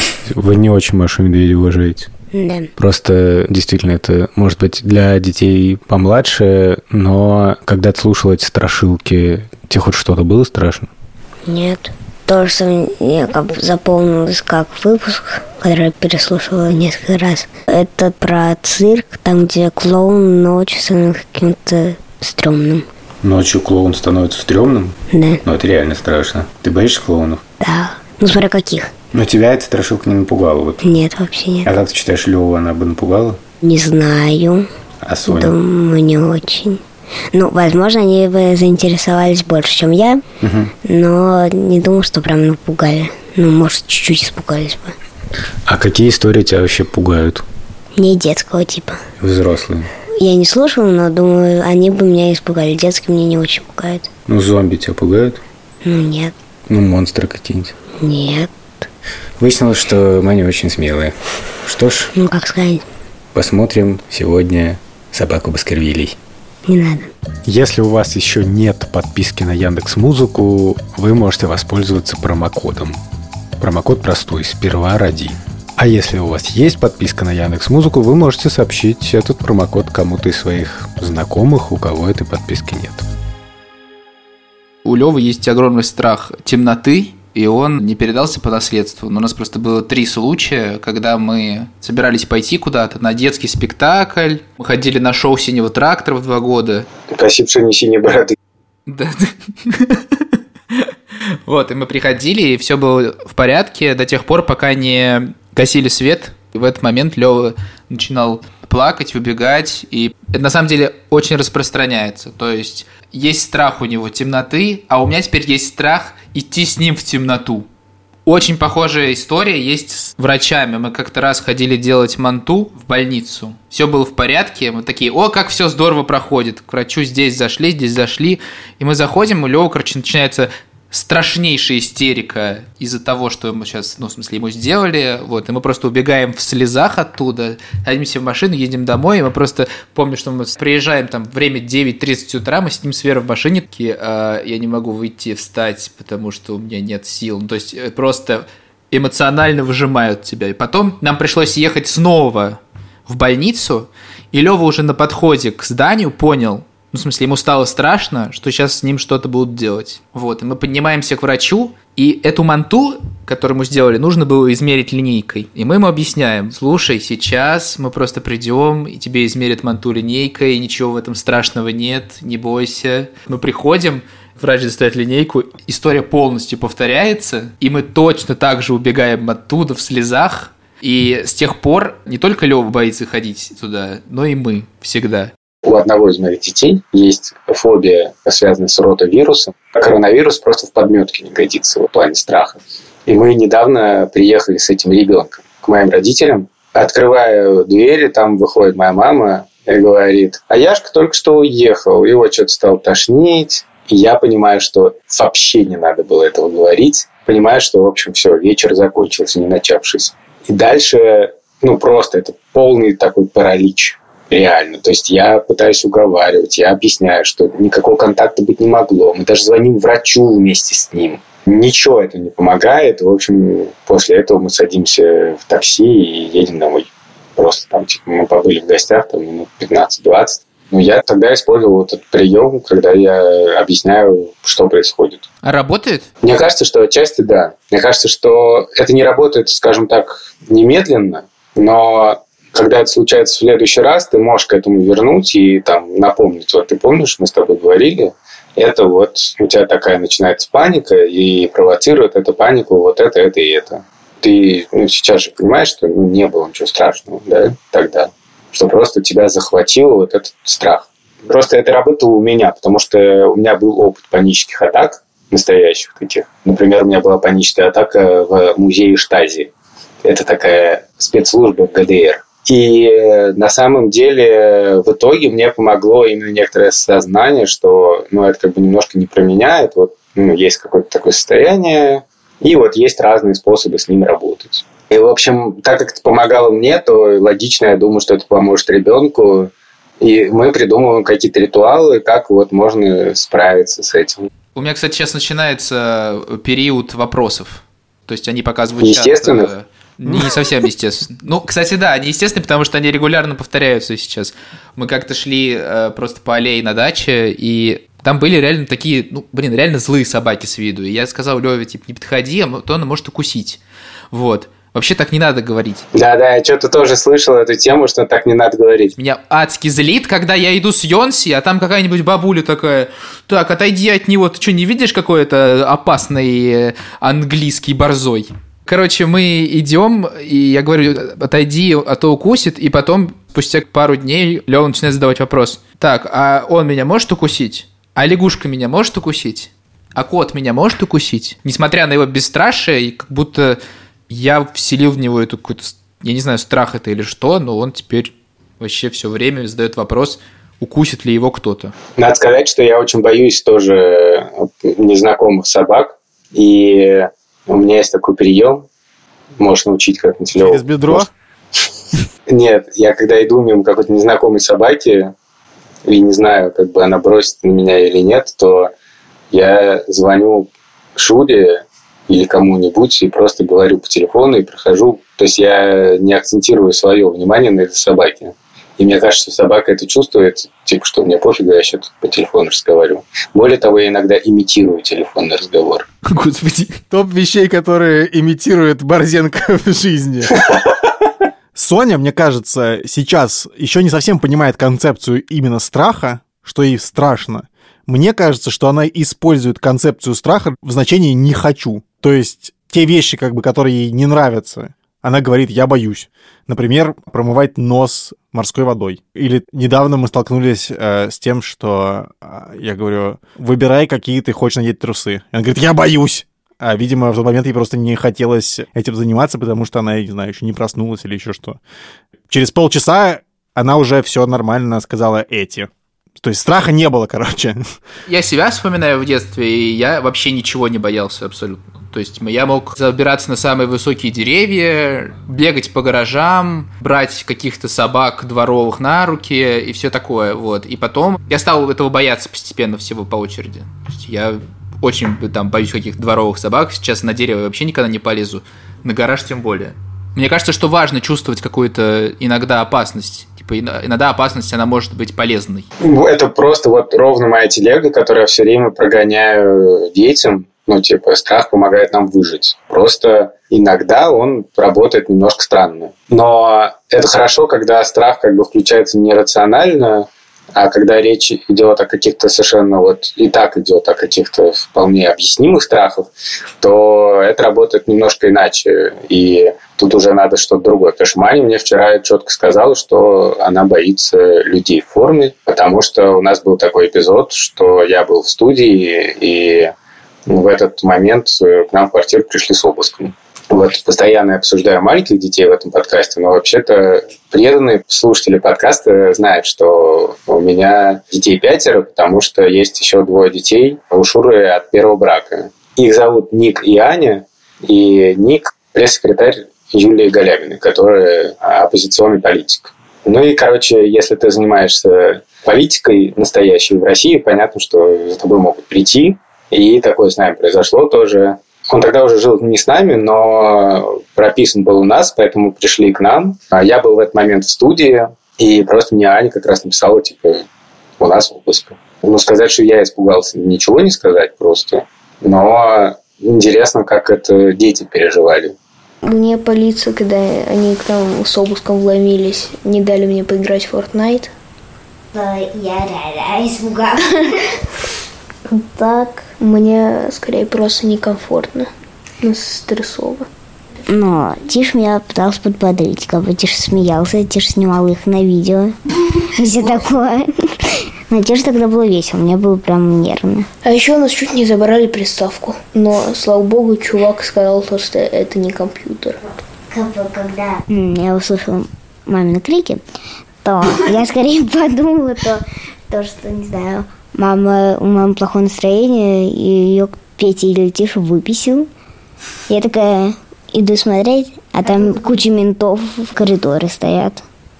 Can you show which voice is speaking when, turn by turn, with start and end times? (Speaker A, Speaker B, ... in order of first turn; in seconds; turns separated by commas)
Speaker A: 0.2-2.1, Speaker B: 2.3-2.7, Speaker A: 2.8-10.9, Speaker B: 11.4-22.9, Speaker A: 23.2-27.4, Speaker B: 25.1-25.4, Speaker B: 27.6-28.9, Speaker A: 29.1-30.8, Speaker B: 30.8-31.7, Speaker A: 31.6-33.4, Speaker B: 33.6-34.6, Speaker A: 35.0-35.5, Speaker B: 35.2-36.8, Speaker B: 37.3-40.2, Speaker A: 40.4-40.7, Speaker B: 40.8-45.0, Speaker A: 45.7-47.4, Speaker B: 47.9-49.0, Speaker A: 49.2-49.9, Speaker B: 50.2-54.1, Speaker A: 54.3-55.4, Speaker B: 55.8-56.3, Speaker A: 56.7-57.7, Speaker B: 58.0-58.5, Speaker A: 59.4-62.1, Speaker B: 62.1-62.8, Speaker A: 63.3-66.2, Speaker B: 66.7-67.1, Speaker A: 67.5-73.0, Speaker A: 73.6-83.0, Speaker C: 84.8-96.8, Speaker D: 97.1-98.3, Speaker C: 98.9-100.9, Speaker C: 101.5-117.7, Speaker C: 118.2-185.3, Speaker D: 185.6-235.2, Speaker C: 235.4-236.1, Speaker D: 236.2-269.5, Speaker D: 270.0-294.3, Speaker C: 294.5-313.6, Speaker D: 298.8-299.5, Speaker C: 314.1-315.8, Speaker D: 315.9-318.9, Speaker C: 318.9-351.7, Speaker D: 352.0-358.7, Speaker D: 359.4-361.1, Speaker E: 360.3-361.1, Speaker D: 362.3-365.1, Speaker D: 365.8-368.7, Speaker D: 369.3-385.9, Speaker C: 386.1-386.8, Speaker E: 386.9-390.4, Speaker E: 391.5-421.6, Speaker E: 422.3-427.6, Speaker C: 428.1-455.6, Speaker D: 455.8-489.7, Speaker D: 490.3-530.4, Speaker D: 531.0-538.5, Speaker F: 539.0-544.3, Speaker B: 545.1-547.1, Speaker F: 548.5-551.7, Speaker F: 552.2-553.3, Speaker B: 553.9-558.7, Speaker B: 559.3-560.5, Speaker B: 561.1-563.5, Speaker F: 563.6-569.2, Speaker B: 569.7-572.8, Speaker B: 573.4-581.7, Speaker B: 582.5-587.2, Speaker F: 584.6-585.2